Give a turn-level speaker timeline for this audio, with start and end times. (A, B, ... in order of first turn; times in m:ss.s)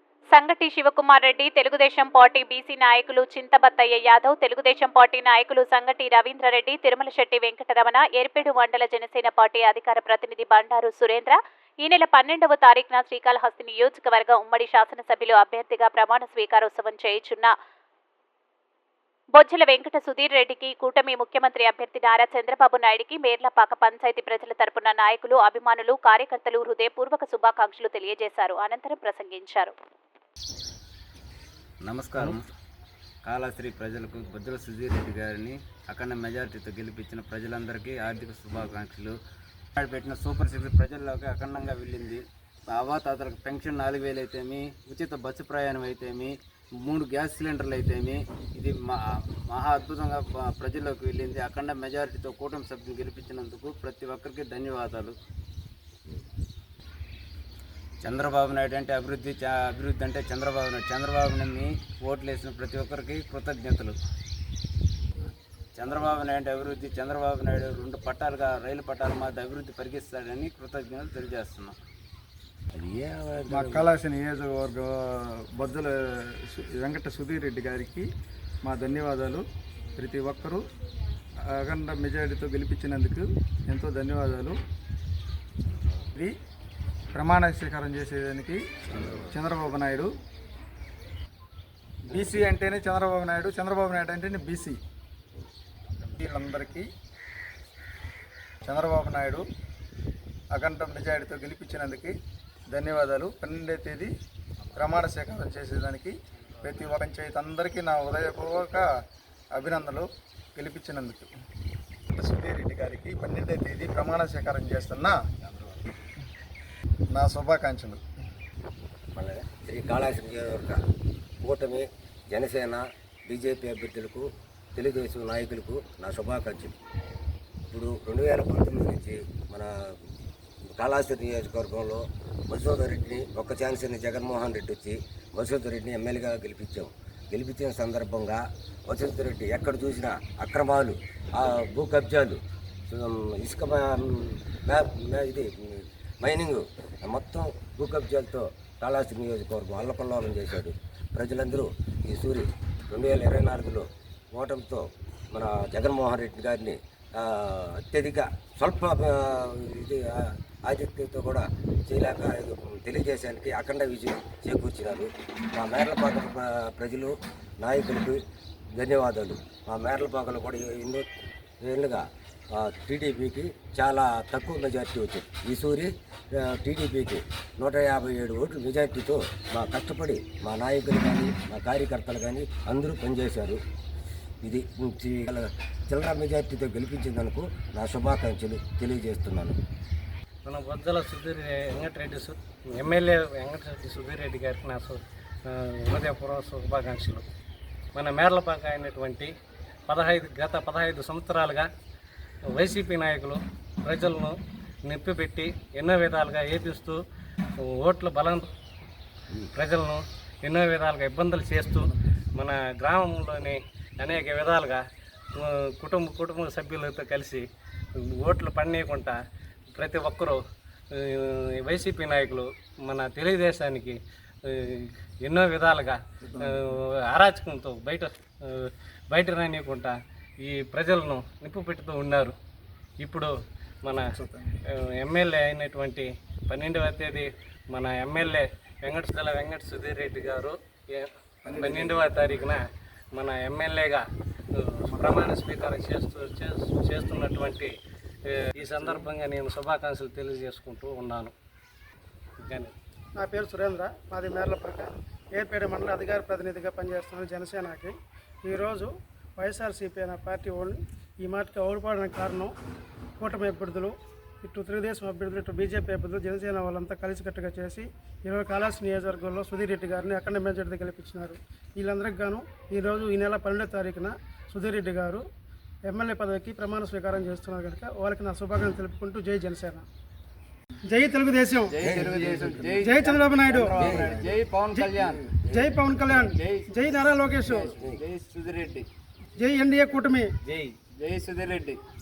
0:00.3-0:17.5 A
0:19.3-0:29.7 A
0:31.8-0:32.4 B
0:33.2-0:39.2 B
0:39.8-0:55.2 B
0:58.0-1:04.0 B
1:05.7-1:11.8 B
1:12.7-1:13.9 C
1:13.5-1:18.1 D
1:18.6-1:19.4 D
1:20.0-1:20.6 D
1:21.4-1:24.6 D
1:27.1-1:30.1 D
1:32.1-1:34.8 D
1:36.1-1:36.9 D
1:38.6-1:39.4 D
1:40.5-1:42.1 D
1:42.7-1:44.1 D
1:44.8-1:48.9 D
1:49.5-1:51.3 D
1:52.1-1:55.2 D
1:57.1-1:58.0 D
1:59.1-2:00.8 C
2:01.4-2:06.7 C
2:07.7-2:09.9 C
2:10.7-2:48.2 C
2:48.8-2:51.0 C
2:51.6-3:03.6 C
3:04.4-3:09.6 C
3:10.4-3:17.2 E
3:17.9-3:19.3 E
3:19.9-3:21.7 E
3:22.5-3:27.0 E
3:27.6-3:28.5 E
3:29.5-3:34.8 E
3:35.3-3:37.4 E
3:38.2-3:39.2 E
3:39.7-3:40.4 E
3:40.9-3:52.3 E
3:46.2-3:46.8 D
3:53.0-3:53.3 E
3:53.8-3:54.1 E
3:53.9-3:54.6 D
3:54.9-4:02.6 E
4:01.4-4:02.3 D
4:03.1-4:07.7 E
4:04.9-4:05.2 D
4:08.3-4:11.3 E
4:08.6-4:09.0 D
4:12.4-4:12.7 E
4:13.2-4:22.5 F
4:23.2-4:35.2 F
4:35.8-4:39.8 F
4:40.9-4:42.0 F
4:41.7-4:45.4 B
4:41.8-4:42.8 C
4:42.6-4:44.0 F
4:43.6-4:44.2 C
4:44.7-4:47.8 F
4:45.0-4:45.5 C
4:46.1-4:46.7 B
4:47.4-4:48.9 B
4:47.7-4:48.0 C
4:49.4-4:50.3 F
4:50.5-4:51.8 B